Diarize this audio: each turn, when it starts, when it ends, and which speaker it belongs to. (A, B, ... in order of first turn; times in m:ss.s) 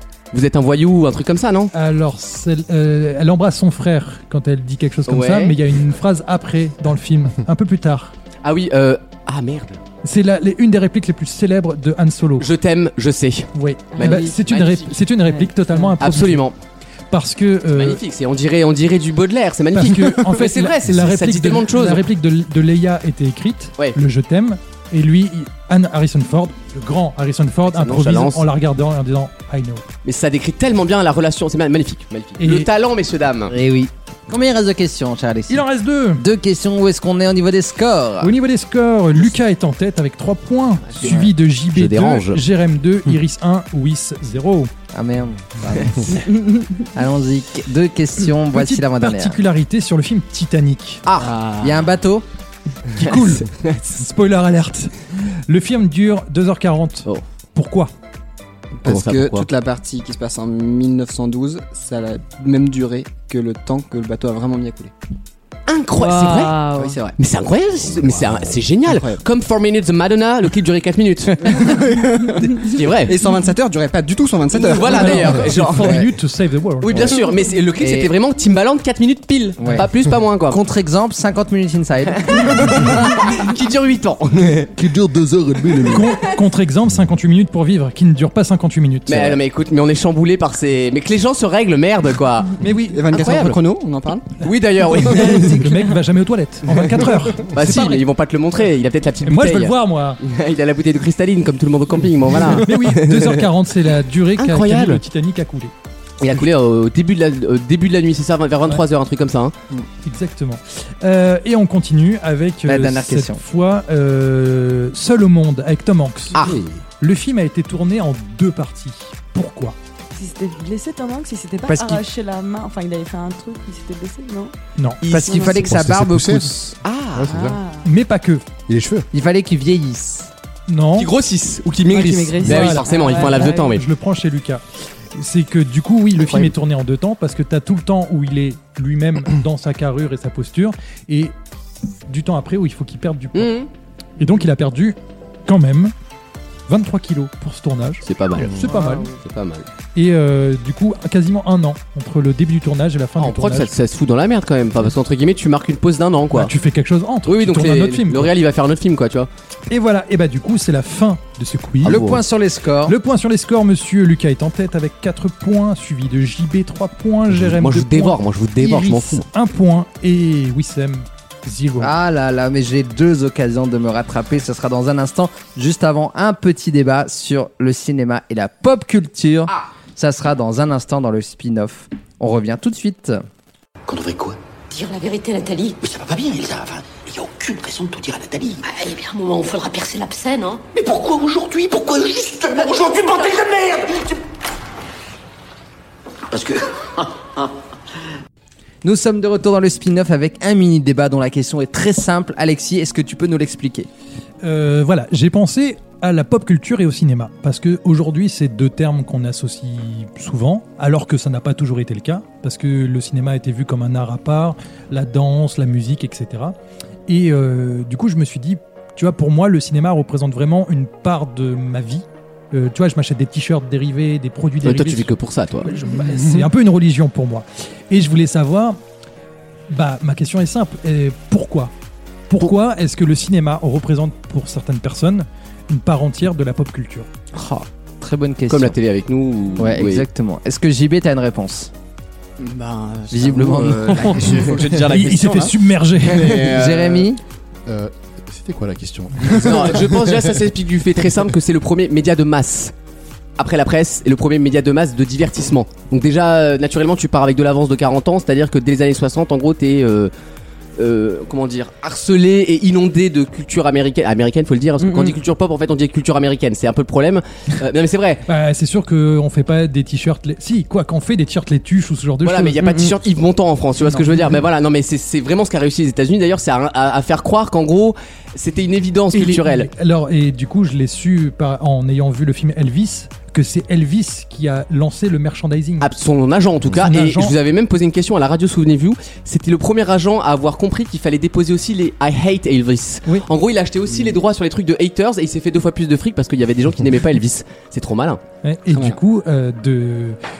0:00.3-0:01.7 A
0:01.7-0:08.1 B
0:05.1-0:05.6 A
0:08.4-0:09.8 A
0:10.0-0:12.5 B
0:12.4-0:15.1 A
0:13.5-0:16.4 B
0:13.9-0:14.4 C
0:15.2-0:15.9 C
0:16.0-0:16.5 A
0:17.1-0:18.0 B
0:17.7-0:22.0 A
0:19.7-0:29.8 B
0:27.7-0:28.4 A
0:30.0-0:33.5 A
0:32.4-0:32.7 B
0:33.5-0:35.6 D
0:35.5-0:36.2 B
0:36.2-0:38.3 D
0:38.2-0:44.7 B
0:41.0-0:41.3 D
0:41.7-0:42.4 A
0:44.9-0:46.2 D
0:46.9-0:49.4 D
0:48.5-0:51.0 B
0:51.0-0:51.3 A
0:51.2-0:51.8 E
0:51.6-0:52.2 D
0:52.9-0:54.9 B
0:53.0-0:53.8 A
0:55.5-0:57.9 B
0:58.8-1:04.9 E
0:58.8-0:59.5 A
1:05.7-1:06.6 A
1:06.0-1:07.0 C
1:06.7-1:07.1 E
1:07.2-1:11.7 A
1:08.8-1:09.2 E
1:11.5-1:15.3 E
1:12.6-1:13.1 A
1:14.5-1:16.0 A
1:14.8-1:17.1 B
1:15.8-1:16.1 D
1:16.8-1:20.6 A
1:17.8-1:18.1 D
1:19.6-1:19.9 D
1:20.5-1:22.7 D
1:22.2-1:24.7 A
1:24.8-1:26.2 F
1:25.9-1:29.4 B
1:29.1-1:32.5 A
1:32.6-1:33.1 B
1:32.9-1:34.3 E
1:33.1-1:33.6 A
1:34.4-1:35.6 A
1:35.0-1:38.0 B
1:36.7-1:43.5 A
1:39.2-1:40.2 B
1:42.6-1:45.7 B
1:44.4-1:45.0 A
1:46.2-1:49.5 A
1:50.0-1:56.4 B
1:52.6-1:53.4 D
1:56.3-1:56.7 A
1:57.0-1:59.8 B
2:00.1-2:04.5 C
2:01.7-2:02.0 D
2:05.0-2:05.5 A
2:05.0-2:06.7 D
2:05.2-2:05.7 C
2:05.5-2:06.6 F
2:06.8-2:07.4 A
2:07.1-2:07.6 F
2:07.3-2:07.9 C
2:07.8-2:08.4 B
2:08.7-2:09.1 F
2:09.1-2:10.3 D
2:10.7-2:11.1 B
2:11.0-2:13.8 A
2:11.9-2:13.7 C
2:12.4-2:14.6 B
2:15.1-2:21.3 B
2:16.2-2:16.5 A
2:22.1-2:23.5 B
2:23.3-2:23.7 A
2:24.2-2:25.9 B
2:26.7-2:29.1 B
2:28.0-2:29.7 A
2:28.6-2:29.1 C
2:29.9-2:33.7 B
2:33.2-2:36.5 A
2:36.3-2:38.3 B
2:37.2-2:39.3 A
2:39.7-2:42.1 B
2:41.8-2:43.0 D
2:41.8-2:42.2 A
2:42.8-2:51.9 B
2:47.4-2:49.2 A
2:51.8-3:03.2 D
3:03.9-3:04.4 G
3:04.7-3:05.8 H
3:05.8-3:08.6 G
3:08.7-3:10.6 H
3:10.7-3:14.1 G
3:16.3-3:17.5 G
3:18.8-3:23.9 D
3:24.4-3:36.6 B
3:37.1-3:45.1 B
3:44.6-3:45.7 A
3:45.6-3:48.8 B
3:49.7-3:51.7 B
3:52.3-3:57.1 B
3:57.3-3:58.8 D
3:58.5-4:00.0 A
3:59.6-4:01.7 D
4:02.4-4:04.5 E
4:03.1-4:04.5 D
4:03.3-4:05.5 A
4:03.9-4:06.4 B
4:04.1-4:05.0 F
4:06.1-4:06.9 A
4:06.2-4:06.8 E
4:06.4-4:07.2 D
4:07.7-4:10.4 F
4:09.4-4:12.7 A
4:13.4-4:20.1 A
4:20.8-4:28.2 A
4:24.8-4:25.2 C
4:28.3-4:32.6 B
4:32.2-4:39.7 A
4:32.6-4:32.9 C
4:33.8-4:34.4 B
4:39.1-4:45.9 B
4:45.8-4:58.2 A
4:46.8-4:47.4 B
4:58.4-5:00.2 B
4:58.7-4:59.0 E